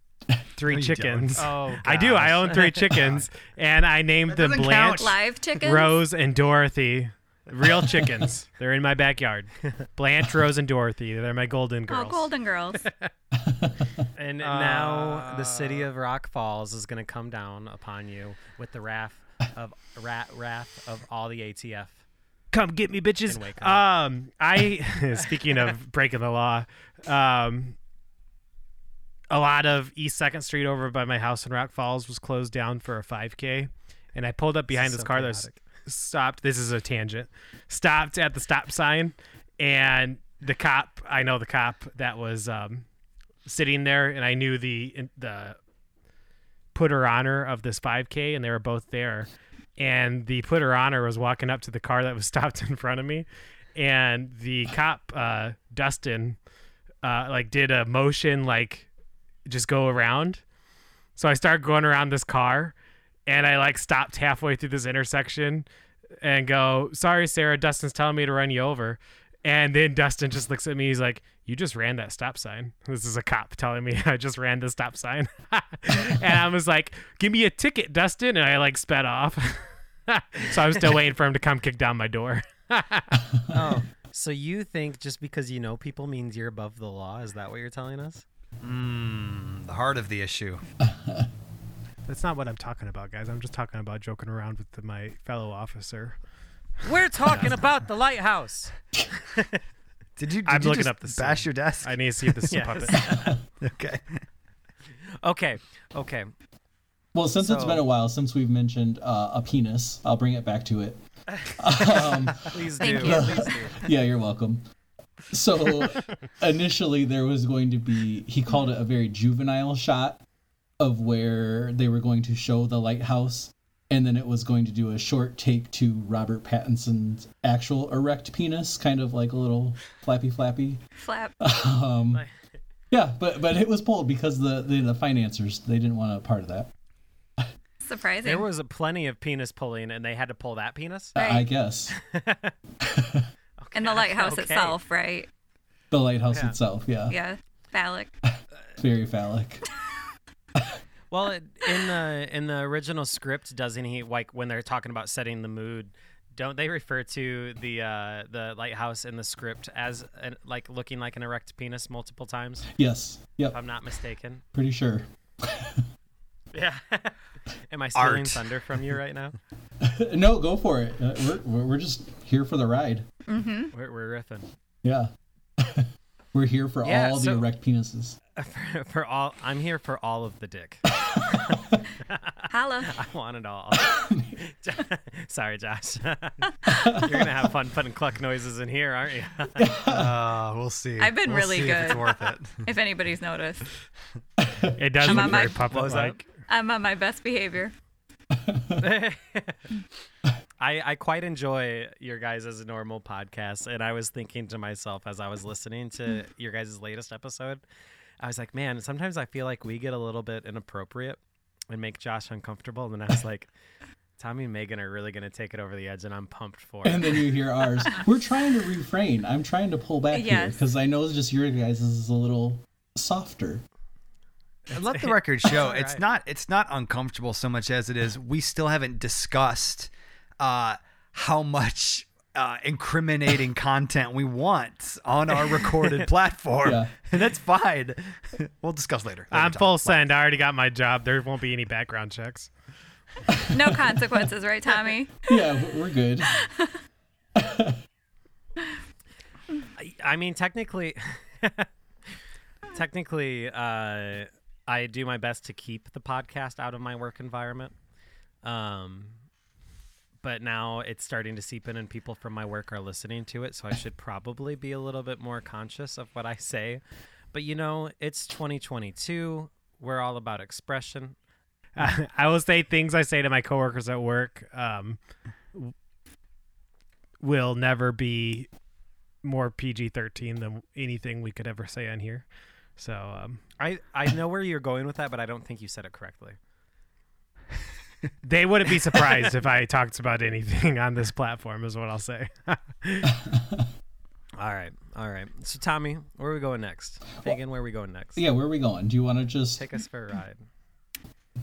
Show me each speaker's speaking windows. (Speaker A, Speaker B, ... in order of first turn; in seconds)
Speaker A: 0.6-12.3, 14.4-15.9, 22.5-27.8, 29.3-42.8, 43.5-45.6, 46.7-56.4, 57.0-58.9, 59.5-60.4, 61.1-62.7, 63.3-65.6, 66.2-83.2, 92.0-96.2, 100.4-103.1, 194.8-196.2, 239.3-242.5, 271.8-275.0, 277.2-278.5, 279.2-282.2, 282.8-283.4, 288.2-293.1
Speaker B: 0.7-3.2, 4.3-5.2, 88.6-90.6, 100.2-102.4, 103.6-104.2, 167.9-168.5, 189.9-192.7, 224.7-240.1
Speaker C: 1.4-2.8, 14.1-22.0, 23.3-23.9, 34.7-35.5, 83.5-88.2, 96.8-99.6, 102.5-103.4, 105.2-106.3, 107.4-107.8, 111.7-113.8, 132.1-132.4, 138.2-141.2, 141.9-142.5, 143.6-144.8, 146.3-146.6, 151.1-162.7, 163.5-164.4, 166.5-167.2, 167.7-169.3, 173.7-174.5, 176.8-177.5, 178.3-189.7, 195.2-196.2, 198.8-199.6, 200.6-207.6, 208.2-213.5, 214.2-217.3, 224.7-226.0, 249.8-251.7, 252.7-257.7, 258.4-259.2, 260.2-266.8, 267.3-271.1, 283.6-286.4, 294.4-298.2, 299.6-300.4
Speaker D: 5.0-6.0, 11.9-12.9, 112.8-113.5, 131.0-131.3, 137.8-138.4, 141.2-141.5, 143.7-145.3, 147.1-148.2, 173.3-173.7, 182.5-183.0, 186.7-186.9, 191.0-193.7, 195.0-195.6, 196.5-197.7, 220.1-220.6, 243.5-245.4, 246.2-246.7
Speaker E: 13.3-13.9, 90.8-91.3, 107.1-114.6, 115.3-120.2, 120.8-130.8, 131.4-132.2, 132.9-136.7, 141.1-141.9, 142.8-143.3, 145.9-147.1, 148.8-149.6, 162.7-163.6, 164.5-165.8, 169.8-173.1, 174.8-178.2, 183.9-184.3, 189.6-190.1, 194.4-195.3, 198.3-198.8, 216.8-223.6, 236.6-236.9, 245.2-246.4, 247.3-247.8, 293.1-293.7, 298.1-299.6